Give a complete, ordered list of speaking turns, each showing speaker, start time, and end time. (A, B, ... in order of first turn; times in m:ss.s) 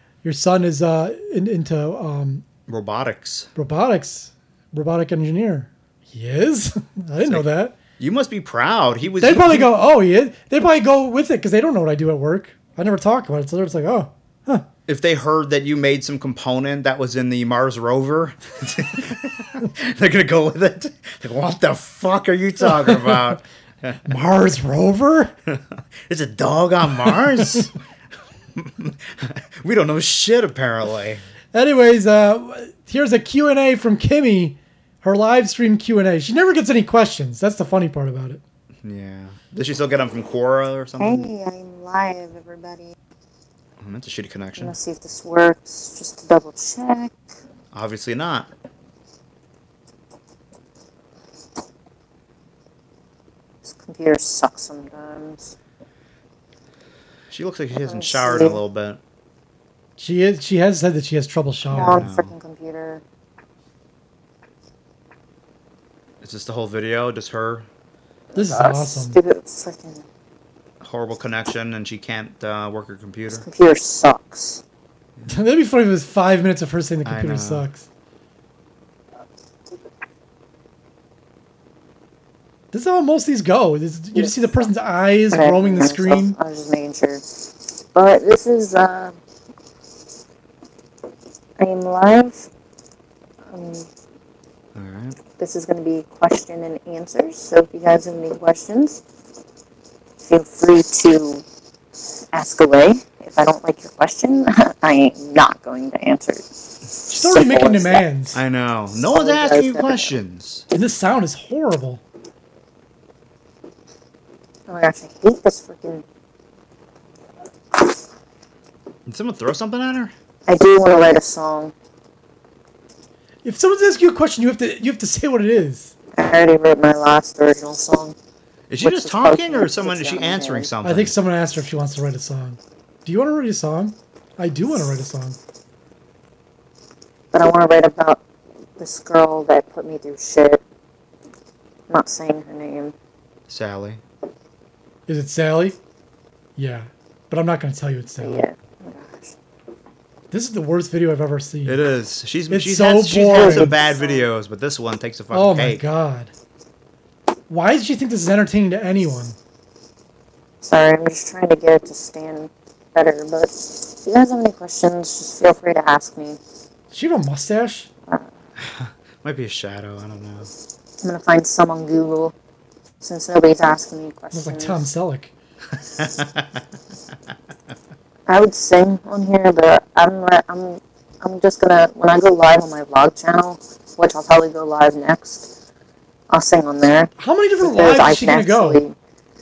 0:00.2-0:02.4 A
0:02.7-0:03.5 B
0:03.6-0:07.7 A
0:08.0-0:09.7 B
0:09.2-0:14.6 A
0:14.9-0:24.0 B
0:22.6-0:23.3 A
0:24.0-0:25.3 A
0:25.5-0:27.7 B
0:28.6-0:31.2 B
0:31.5-0:38.4 A
0:38.8-0:41.3 B
0:41.0-0:42.9 C
0:43.8-0:44.7 B
0:44.6-0:47.1 C
0:47.7-0:48.5 B
0:53.6-0:55.6 C
0:57.3-0:59.0 B
0:57.8-0:58.6 C
1:00.0-1:02.0 A
1:01.7-1:03.0 C
1:01.7-1:02.3 B
1:06.2-1:07.7 B
1:08.3-1:10.0 C
1:08.3-1:09.2 A
1:10.8-1:13.4 B
1:13.3-1:14.6 C
1:15.3-1:17.8 A
1:17.0-1:17.7 B
1:22.7-1:26.3 A
1:24.1-1:24.7 C
1:25.3-1:29.2 C
1:31.6-1:32.5 C
1:33.5-1:33.9 C
1:34.7-1:35.2 B
1:35.4-1:39.0 C
1:40.2-1:41.4 C
1:42.3-1:48.0 C
1:47.1-1:48.4 A
1:48.3-1:50.6 B
1:49.1-1:50.1 C
1:50.7-1:52.0 A
1:54.7-1:56.0 C
1:59.0-2:00.1 B
2:00.5-2:01.7 C
2:03.4-2:05.9 A
2:06.2-2:08.1 C
2:08.7-2:11.1 B
2:08.8-2:10.7 C
2:10.8-2:15.4 A
2:17.3-2:18.2 C
2:18.8-2:20.6 C
2:21.9-2:22.9 C
2:23.5-2:24.0 B
2:25.1-2:25.8 A
2:26.6-2:28.4 A
2:28.2-2:29.3 C
2:30.3-2:31.8 A
2:31.6-2:35.8 B
2:32.5-2:33.7 A
2:33.2-2:34.3 C
2:35.3-2:36.3 A
2:37.5-2:39.4 A
2:40.6-2:46.4 C
2:46.9-2:47.9 A
2:48.6-2:50.5 B
2:51.0-2:52.3 C
2:53.0-2:54.8 C
2:54.3-2:55.3 A
2:55.9-2:56.6 B
2:58.3-3:05.5 C
3:06.3-3:09.0 C
3:07.2-3:08.8 A